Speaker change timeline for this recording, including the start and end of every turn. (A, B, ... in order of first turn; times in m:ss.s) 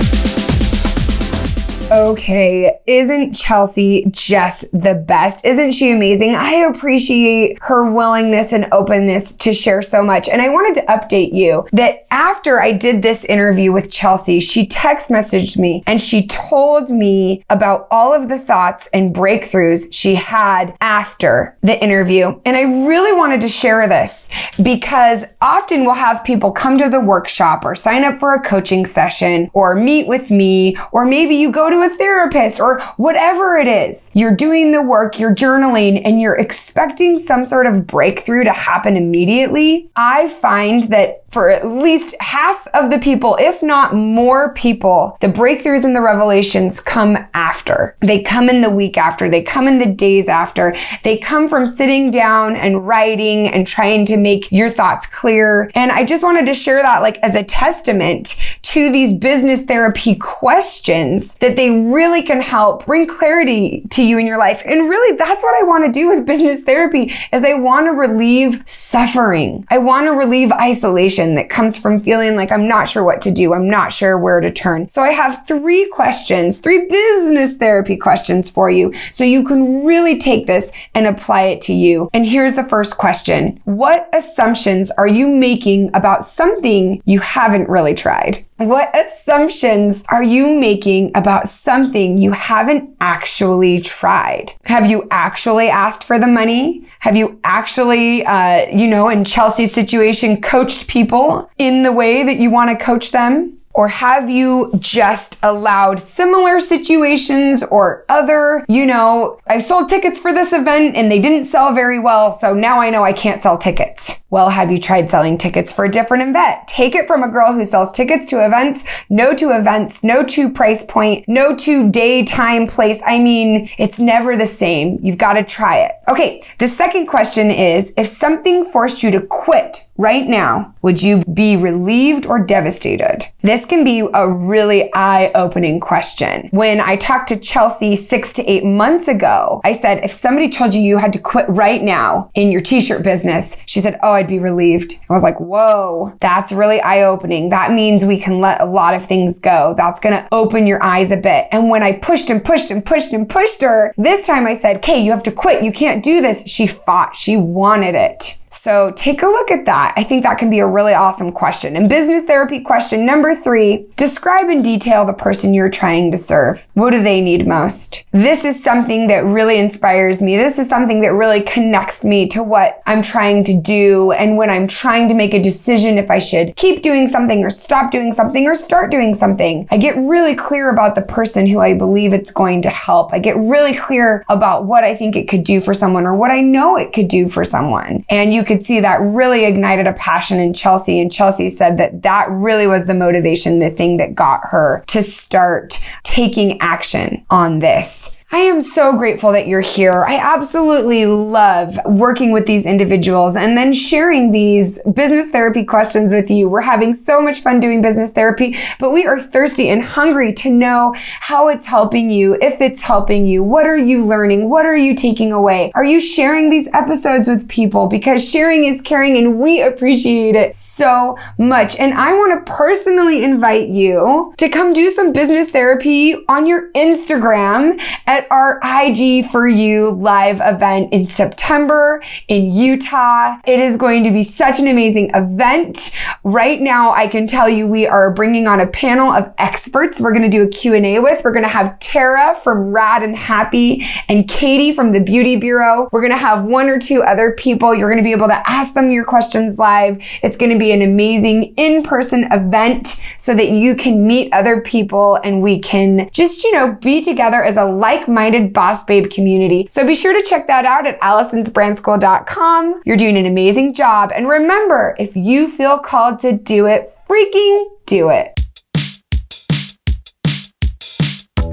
0:01.9-4:28.3 A